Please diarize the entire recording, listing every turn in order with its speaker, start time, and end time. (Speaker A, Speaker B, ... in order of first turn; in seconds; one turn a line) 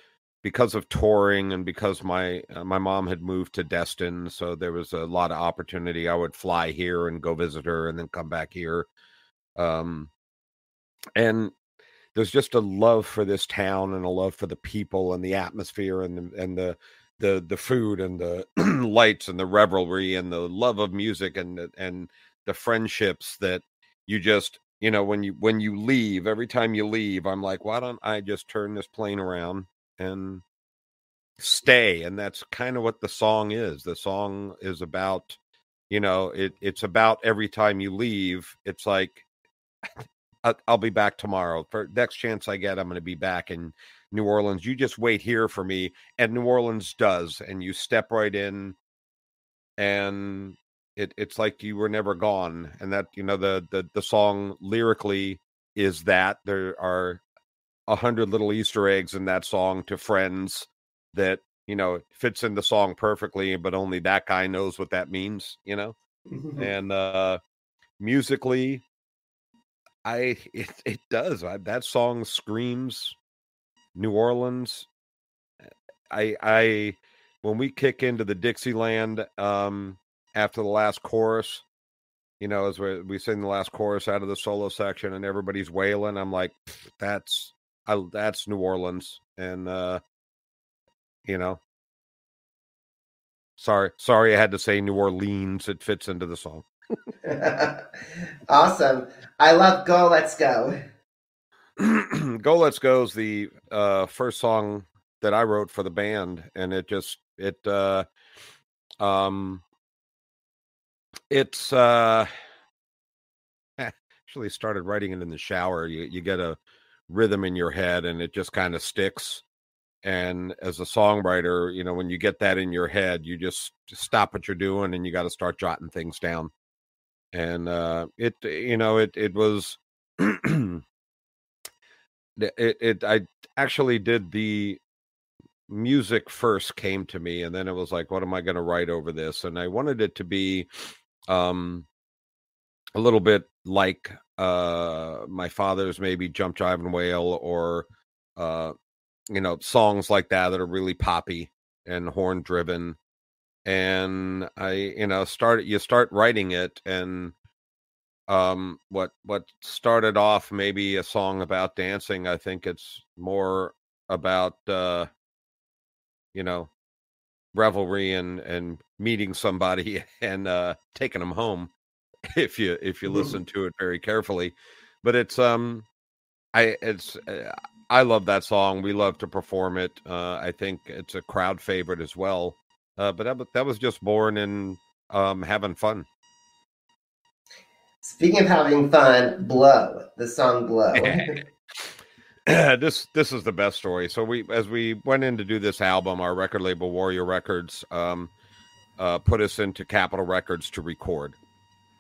Speaker A: 0.4-8.9
Speaker A: 9.6-10.1
Speaker A: 11.2-11.5
Speaker A: 12.1-30.4
Speaker A: 31.4-35.4
Speaker A: 35.9-39.2
Speaker A: 40.4-48.8
Speaker A: 49.8-57.2
Speaker A: 57.9-65.9
Speaker B: 66.3-66.7
Speaker A: 66.5-67.4
Speaker A: 68.0-68.8
Speaker A: 70.0-73.2
Speaker A: 73.9-74.9
Speaker A: 76.1-81.6
Speaker A: 82.4-90.0
Speaker A: 91.2-91.6
Speaker A: 93.6-96.7
Speaker B: 97.2-100.8
Speaker A: 101.8-108.0
Speaker A: 109.0-109.6
Speaker A: 111.3-112.3
Speaker A: 113.8-116.6
Speaker A: 117.1-119.4
Speaker A: 120.0-126.5
Speaker A: 127.3-130.8
Speaker A: 132.4-134.8
Speaker A: 135.7-140.7
Speaker A: 141.3-141.9
Speaker A: 142.9-147.8
Speaker A: 148.4-148.7
Speaker A: 149.3-153.0
Speaker A: 153.6-157.3
Speaker A: 158.3-165.1
Speaker A: 166.3-166.7
Speaker A: 167.5-171.7
Speaker A: 172.3-175.9
Speaker B: 173.1-173.3
Speaker A: 176.5-186.1
Speaker B: 188.0-191.3
Speaker A: 190.9-191.9
Speaker A: 192.5-198.3
Speaker A: 199.0-201.4